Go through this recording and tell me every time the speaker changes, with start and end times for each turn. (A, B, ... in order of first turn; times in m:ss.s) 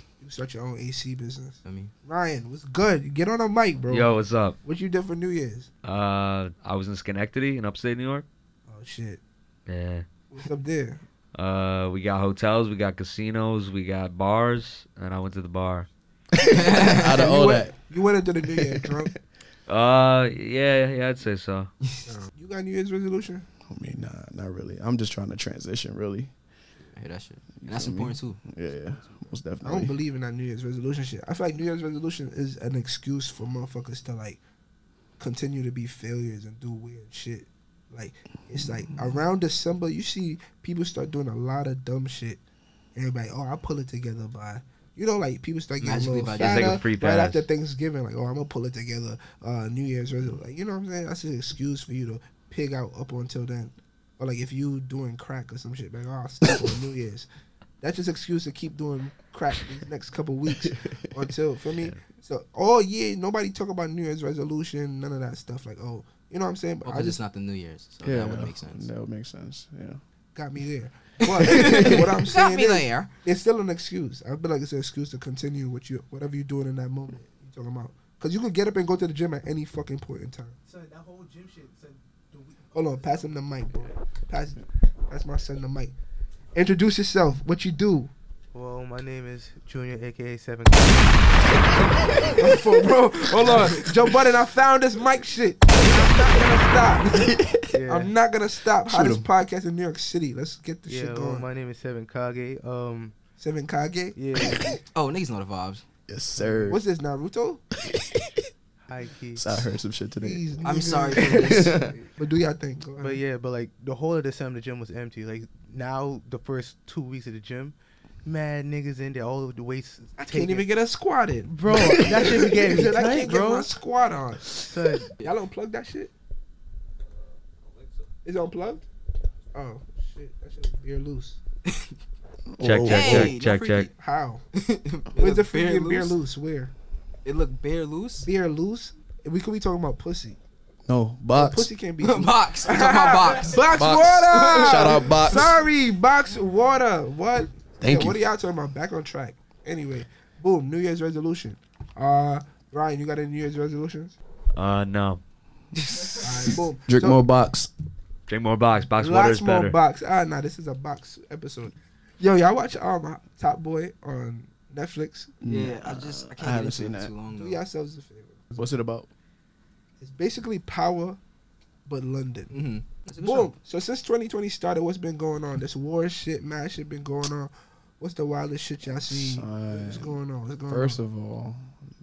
0:00.2-0:05.7 A
0:01.6-0:01.9 B
0:03.9-0:04.6 C
0:05.8-0:08.2 C
0:08.7-0:09.2 A
0:09.7-0:10.0 C
0:10.3-0:11.0 A
0:11.3-0:15.9 C
0:16.5-0:17.8 D
0:16.5-0:17.1 B
0:16.9-0:19.1 A
0:18.4-0:19.2 D
0:19.7-0:21.7 C
0:22.1-0:23.5 A
0:23.7-0:26.3 D
0:27.0-0:28.4 B
0:27.6-0:30.0 D
0:29.6-0:34.4 A
0:35.2-0:42.4 A
0:42.9-0:57.3 A
0:45.8-0:46.8 B
0:46.4-0:47.4 C
0:57.8-1:07.2 A
1:00.5-1:01.3 D
1:06.8-1:08.9 B
1:08.0-1:10.0 D
1:10.3-1:20.6 A
1:11.2-1:13.0 B
1:20.6-1:22.8 E
1:22.7-1:25.9 A
1:26.5-1:28.1 A
1:28.5-1:32.4 E
1:32.4-1:37.3 A
1:33.4-1:33.8 E
1:37.2-1:37.6 D
1:37.7-1:38.1 E
1:37.9-1:41.5 A
1:38.8-1:39.3 D
1:40.9-1:43.1 E
1:43.4-1:44.8 A
1:44.1-1:44.8 E
1:44.9-1:45.8 B
1:46.1-1:46.8 D
1:46.4-1:46.7 E
1:46.7-1:47.6 A
1:47.8-1:48.3 D
1:48.8-1:49.6 E
1:49.3-1:50.4 D
1:50.2-1:53.2 A
1:50.6-1:51.8 B
1:51.2-1:52.0 D
1:53.0-2:00.7 E
2:00.2-2:04.7 A
2:01.6-2:03.6 E
2:01.7-2:02.4 D
2:04.5-2:05.1 E
2:05.2-2:06.1 A
2:08.2-2:08.8 A
2:09.5-2:11.4 A
2:12.5-2:13.3 D
2:12.6-2:13.9 C
2:12.8-2:13.9 B
2:13.9-2:14.4 A
2:14.5-2:16.2 B
2:15.2-2:16.7 A
2:17.2-2:18.3 B
2:18.2-2:20.4 A
2:20.9-2:21.7 D
2:21.3-2:34.2 A
2:22.0-2:25.4 B
2:23.7-2:25.6 D
2:27.8-2:28.2 D
2:34.5-2:35.2 C
2:36.2-2:37.3 A
2:36.9-2:37.7 D
2:38.3-2:39.8 C
2:39.0-2:45.3 A
2:45.4-2:47.1 D
2:45.4-2:47.6 B
2:47.3-2:48.8 A
2:48.6-2:49.1 D
2:50.0-2:51.2 A
2:51.8-2:52.5 A
2:52.5-2:53.5 B
2:53.2-3:01.0 A
2:59.0-3:01.8 D